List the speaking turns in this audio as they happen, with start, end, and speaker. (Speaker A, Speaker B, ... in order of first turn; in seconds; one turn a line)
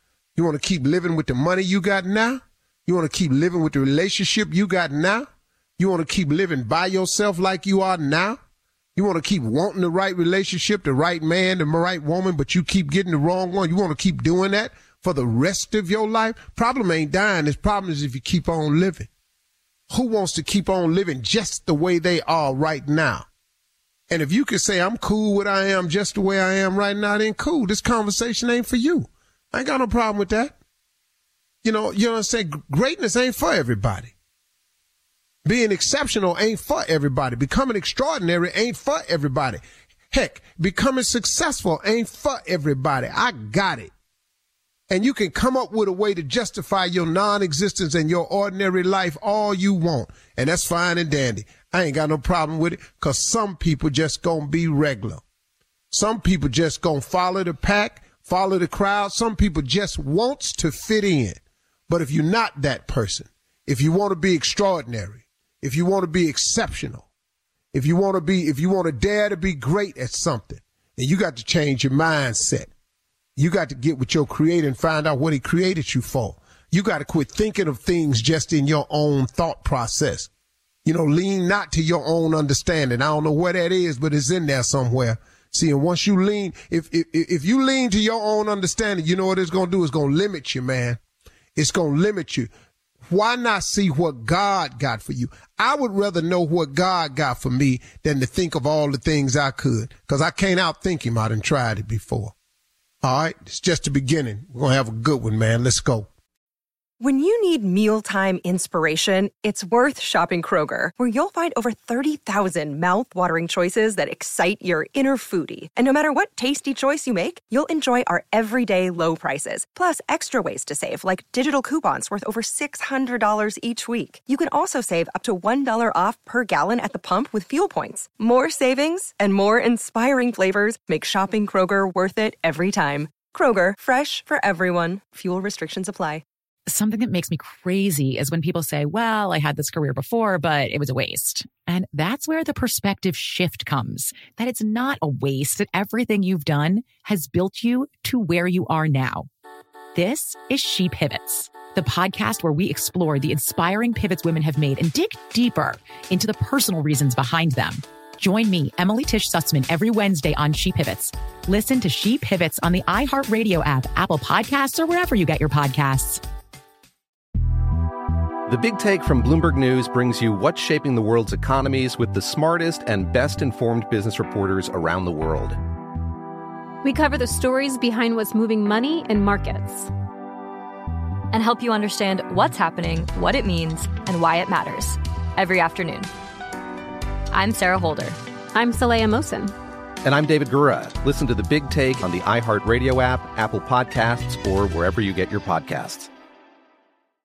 Speaker A: 0.3-8.4
Speaker A: 8.9-19.1
Speaker A: 19.9-23.2
Speaker A: 24.1-30.6
Speaker A: 31.6-34.1
Speaker A: 35.4-43.9
Speaker A: 44.9-55.2
Speaker A: 55.9-67.1
Speaker A: 67.7-72.7
Speaker A: 73.3-80.3
Speaker A: 80.8-91.0
Speaker A: 91.5-92.5
Speaker A: 93.0-102.3
Speaker A: 103.0-106.1
Speaker B: 107.0-136.2
Speaker C: 136.7-149.3
Speaker C: 149.9-166.2
Speaker D: 168.5-175.6
Speaker E: 176.8-179.9
Speaker F: 181.3-186.1
Speaker F: 187.3-188.2
Speaker E: 188.5-189.5
Speaker D: 190.0-196.1